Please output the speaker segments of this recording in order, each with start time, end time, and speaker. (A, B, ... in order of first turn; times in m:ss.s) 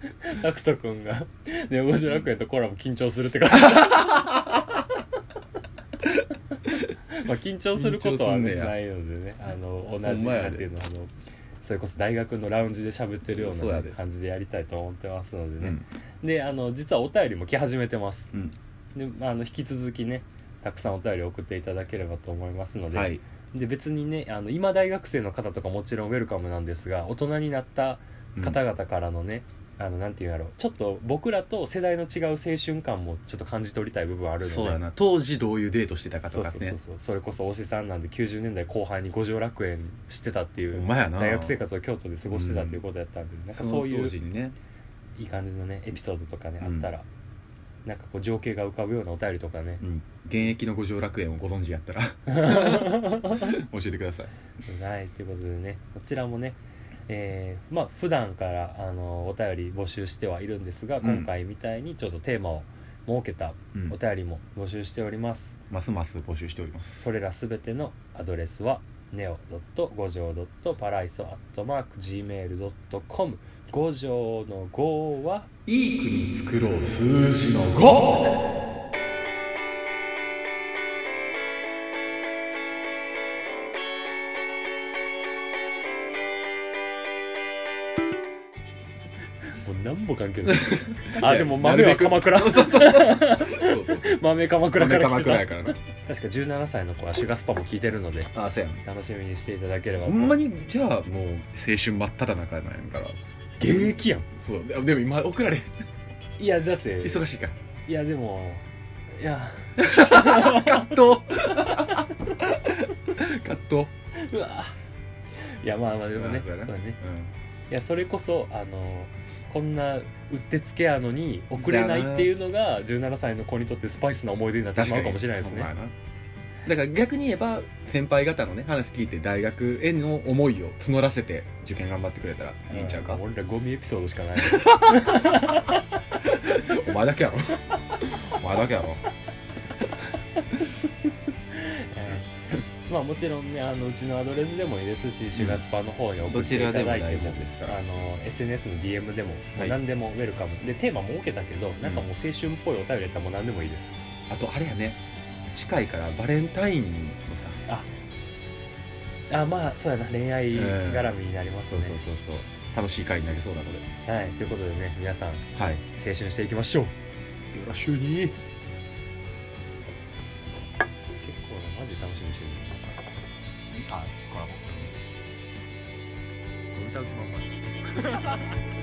0:00.2-0:04.3 A
0:03.6-0:04.7 B
0:07.1-0:18.3 A
0:07.8-0:08.7 B
0:09.9-0:10.7 B
0:13.3-0:14.0 B
0:18.9-0:34.8 A
0:22.9-0:23.2 B
0:34.4-0:36.8 B
0:36.1-0:44.2 A
0:40.7-0:41.6 B
0:42.2-0:42.8 B
0:43.5-0:44.6 B
0:45.2-0:47.0 A
0:46.6-0:46.9 B
0:47.9-0:49.8 A
0:49.8-0:54.3 B
0:52.3-0:53.6 A
0:54.7-1:05.6 A
1:01.0-1:01.3 B
1:05.7-1:07.0 B
1:07.0-1:15.5 A
1:15.6-1:18.5 B
1:29.6-1:38.3 A
1:30.5-1:35.8 B
1:38.3-1:38.8 B
1:38.8-1:40.4 A
1:40.0-1:45.7 B
1:43.6-1:44.3 A
1:46.4-1:47.2 A
1:47.0-1:47.5 B
1:47.9-1:51.0 A
1:49.8-1:53.9 B
1:54.1-1:54.8 A
1:55.4-1:57.0 A
1:56.1-1:57.3 B
1:57.7-2:05.7 A
2:01.5-2:02.3 B
2:04.7-2:05.9 B
2:06.6-2:13.2 B
2:12.7-2:16.0 A
2:14.4-2:15.4 B
2:16.2-2:19.0 B
2:21.5-2:22.3 A
2:22.9-2:34.0 A
2:25.4-2:25.6 B
2:26.3-2:27.8 B
2:31.8-2:32.1 B
2:34.3-2:35.0 B
2:35.5-2:37.6 B
2:39.3-2:42.0 A
2:40.5-2:41.1 B
2:41.7-2:43.9 B
2:44.0-2:46.9 A
2:45.5-2:45.8 B
2:47.5-2:48.4 B
2:51.1-2:52.9 A
2:53.7-2:55.0 B
2:56.7-2:58.6 A